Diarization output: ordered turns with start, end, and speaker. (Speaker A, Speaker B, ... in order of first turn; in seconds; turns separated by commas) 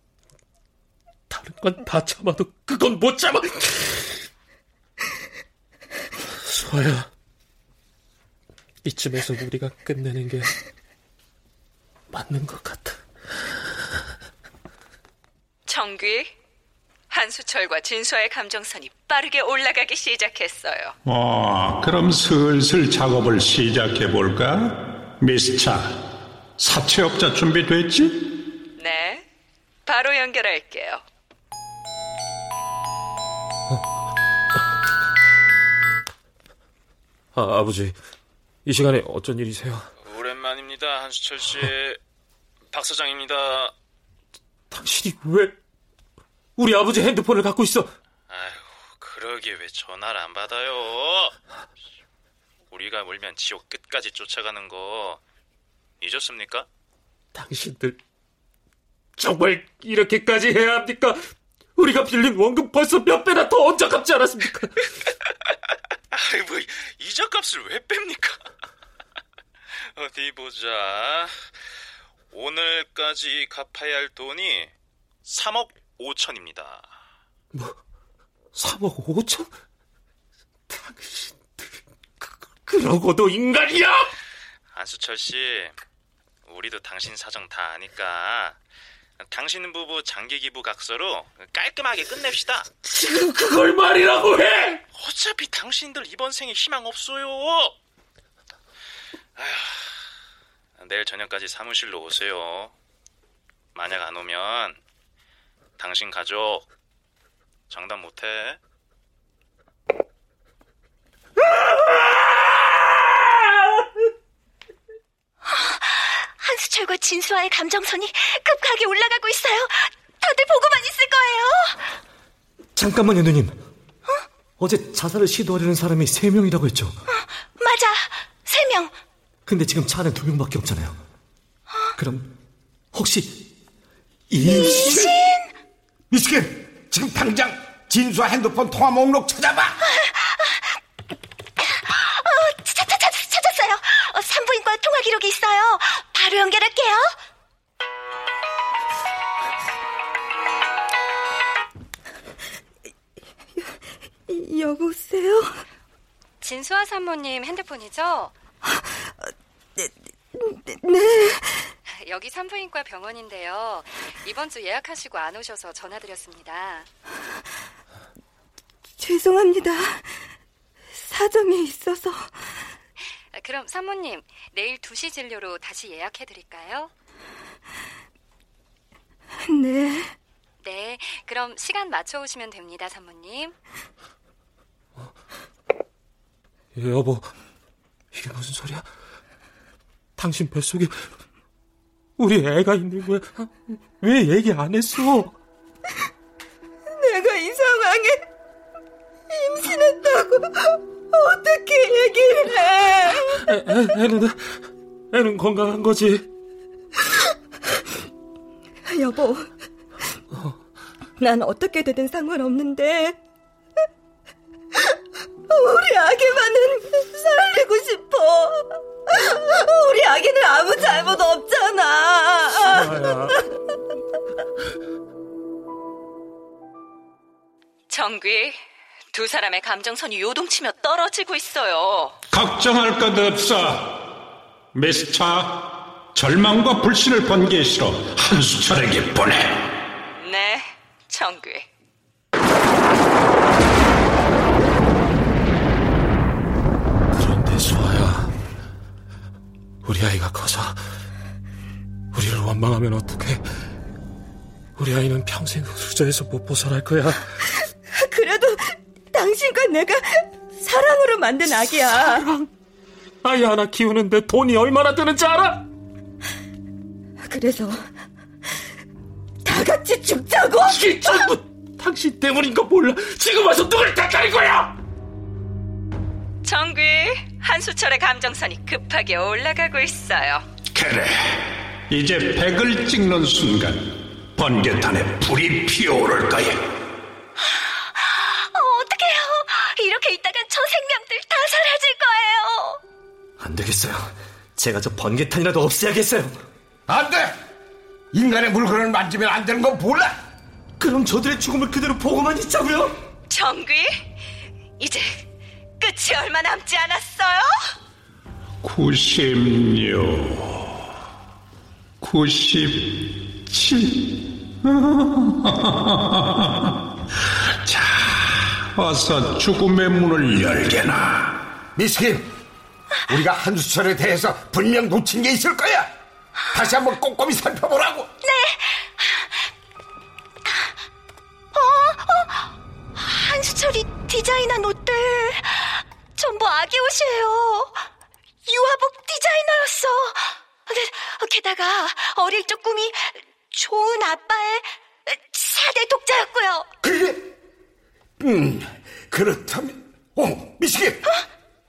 Speaker A: 1.3-4.2, Speaker A: 6.5-7.1, Speaker A: 8.8-10.5, Speaker A: 12.1-13.0, Speaker B: 15.7-16.3, Speaker B: 17.1-20.9, Speaker C: 21.1-26.0, Speaker C: 26.6-28.4, Speaker B: 28.8-29.2, Speaker B: 29.9-31.0, Speaker A: 37.4-38.0, Speaker A: 38.6-39.9, Speaker D: 40.0-42.0, Speaker D: 42.7-43.7, Speaker A: 44.7-45.6, Speaker A: 46.6-47.9, Speaker D: 48.3-51.3, Speaker D: 52.7-55.2, Speaker D: 56.0-56.7, Speaker A: 57.3-58.0, Speaker A: 59.2-64.8, Speaker D: 66.1-68.4, Speaker D: 69.8-71.3, Speaker D: 72.3-74.7, Speaker D: 75.3-76.9, Speaker A: 78.5-79.5, Speaker A: 80.7-81.7, Speaker A: 82.2-84.1, Speaker D: 84.7-85.8, Speaker D: 86.5-88.6, Speaker D: 89.2-92.7, Speaker A: 92.9-94.8, Speaker D: 94.9-97.8, Speaker D: 99.4-99.9, Speaker D: 100.8-102.8, Speaker D: 103.8-104.8, Speaker D: 105.8-106.7, Speaker D: 107.7-108.6, Speaker E: 115.5-122.0, Speaker F: 122.8-123.6, Speaker F: 124.6-127.0, Speaker E: 127.1-128.9, Speaker F: 129.5-131.0, Speaker F: 132.0-132.3, Speaker F: 132.9-133.4, Speaker F: 134.3-135.0, Speaker G: 134.4-135.1, Speaker E: 134.4-135.5, Speaker G: 136.1-139.8, Speaker E: 139.8-140.8, Speaker E: 141.6-147.2, Speaker H: 153.6-155.6, Speaker I: 156.4-158.3, Speaker H: 158.7-161.7, Speaker I: 161.9-166.9, Speaker H: 169.0-170.2, Speaker H: 171.0-172.5, Speaker I: 173.3-176.9, Speaker H: 179.5-180.1, Speaker I: 180.6-183.6, Speaker A: 186.8-187.3, Speaker A: 188.1-188.9, Speaker A: 190.2-191.0, Speaker A: 192.2-195.3, Speaker H: 197.0-198.2, Speaker H: 199.3-203.4, Speaker A: 203.4-204.4, Speaker A: 205.1-206.3, Speaker H: 208.9-209.5, Speaker H: 211.2-213.2, Speaker H: 215.5-223.4, Speaker A: 222.7-223.4, Speaker B: 227.9-228.6, Speaker B: 229.1-232.2, Speaker C: 232.3-234.0, Speaker C: 234.7-239.7, Speaker B: 240.2-241.7, Speaker A: 247.1-248.3, Speaker A: 249.8-250.8, Speaker A: 252.1-253.4, Speaker A: 254.8-257.3, Speaker H: 257.9-262.3, Speaker A: 261.9-262.5, Speaker A: 263.2-265.6, Speaker H: 267.3-267.9, Speaker H: 269.4-271.3, Speaker A: 270.7-274.7, Speaker B: 276.4-280.5, Speaker C: 280.7-286.7, Speaker E: 287.4-292.8, Speaker F: 293.4-296.4, Speaker G: 296.9-297.3, Speaker G: 298.1-300.1, Speaker F: 300.8-303.0, Speaker B: 303.3-304.1, Speaker B: 304.8-305.3, Speaker B: 305.8-307.5, Speaker C: 308.6-310.6, Speaker C: 312.0-316.7, Speaker C: 317.6-321.4, Speaker G: 321.8-322.3, Speaker G: 323.1-325.9, Speaker G: 326.5-328.1, Speaker E: 328.2-329.5, Speaker E: 330.5-330.8, Speaker E: 331.5-337.9, Speaker E: 338.5-346.7, Speaker G: 346.8-347.2, Speaker G: 348.2-351.0